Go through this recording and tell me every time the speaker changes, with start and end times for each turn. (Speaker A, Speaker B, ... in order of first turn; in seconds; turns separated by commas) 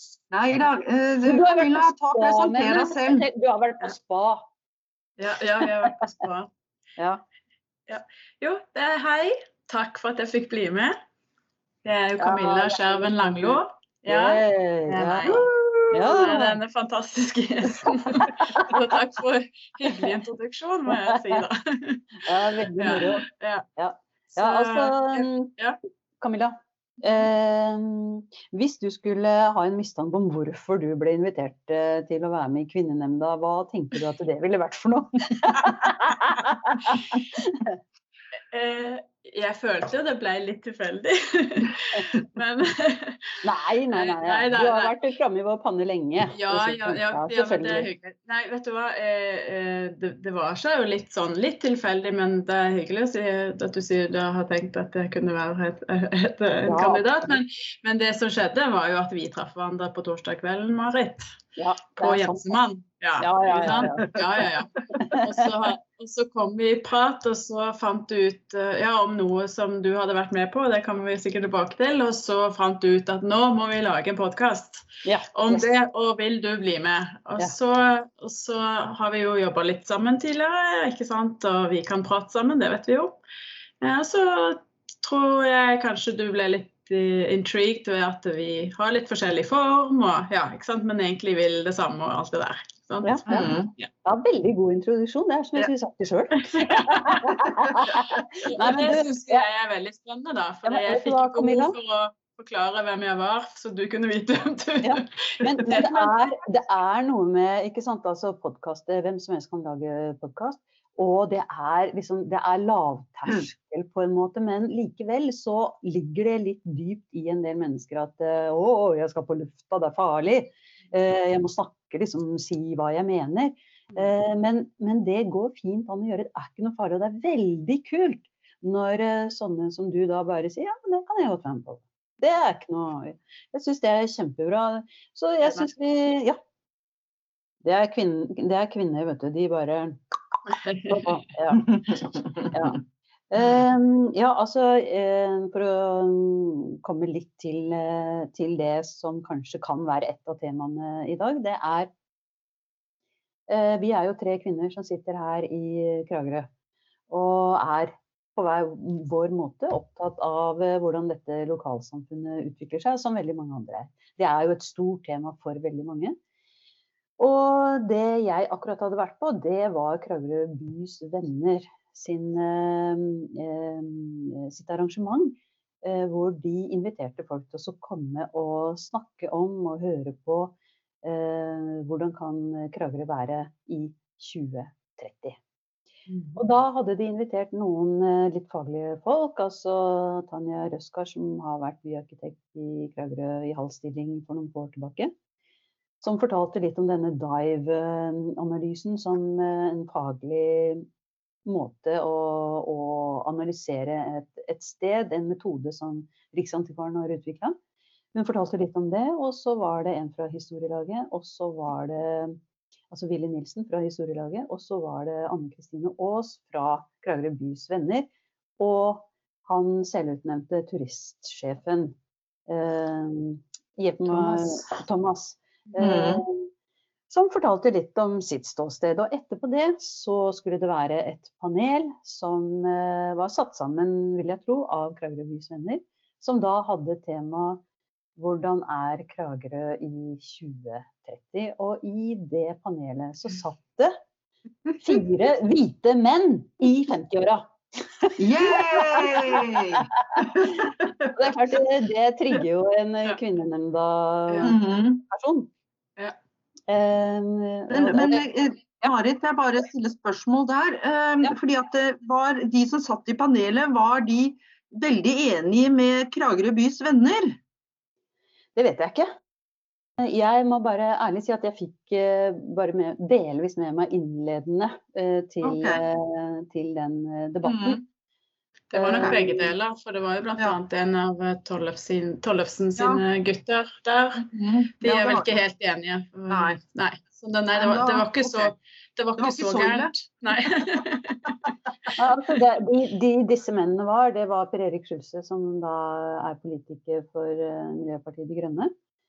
Speaker A: 0.3-3.2, Speaker B: 1.2-4.5, Speaker C: 5.2-6.5, Speaker C: 7.9-10.9, Speaker C: 11.8-22.2, Speaker B: 12.2-16.6, Speaker B: 18.2-18.8, Speaker B: 20.9-21.4, Speaker B: 22.2-23.2, Speaker C: 22.8-23.7, Speaker B: 23.8-25.5, Speaker C: 24.4-25.8, Speaker B: 26.2-37.7, Speaker C: 38.5-43.4, Speaker B: 43.4-47.9, Speaker C: 43.9-44.9, Speaker C: 46.3-61.3, Speaker B: 56.7-57.3, Speaker B: 61.6-62.6, Speaker C: 62.0-83.2, Speaker B: 63.2-64.1, Speaker B: 65.0-65.5, Speaker B: 75.0-75.7, Speaker C: 83.8-93.2, Speaker B: 93.0-99.5, Speaker A: 93.3-93.7, Speaker C: 96.4-97.4, Speaker C: 98.4-106.1, Speaker B: 100.6-101.8, Speaker B: 104.8-136.4, Speaker B: 137.6-140.0, Speaker C: 140.6-141.2, Speaker B: 140.8-142.8, Speaker A: 141.6-142.5, Speaker B: 143.3-151.9, Speaker B: 153.5-156.5, Speaker B: 157.1-166.2, Speaker B: 167.2-185.4, Speaker C: 186.1-186.4, Speaker B: 186.4-195.1, Speaker B: 196.0-200.9, Speaker B: 201.5-207.6, Speaker B: 208.1-212.4, Speaker B: 212.9-221.9, Speaker B: 222.5-226.5, Speaker C: 224.1-224.7, Speaker A: 225.8-226.2, Speaker B: 227.1-237.6, Speaker B: 238.2-244.0, Speaker B: 244.8-255.5, Speaker A: 248.2-251.1, Speaker C: 254.3-254.5, Speaker A: 254.4-255.0, Speaker B: 256.7-258.2, Speaker A: 257.7-267.4, Speaker B: 268.6-269.1, Speaker B: 270.0-277.8, Speaker A: 275.4-275.8, Speaker A: 277.4-277.8, Speaker C: 278.7-284.3, Speaker B: 278.7-279.5, Speaker A: 282.8-283.0, Speaker A: 284.2-285.4, Speaker C: 284.8-291.9, Speaker A: 286.3-286.6, Speaker A: 287.5-288.5, Speaker A: 289.2-289.9, Speaker B: 291.9-298.7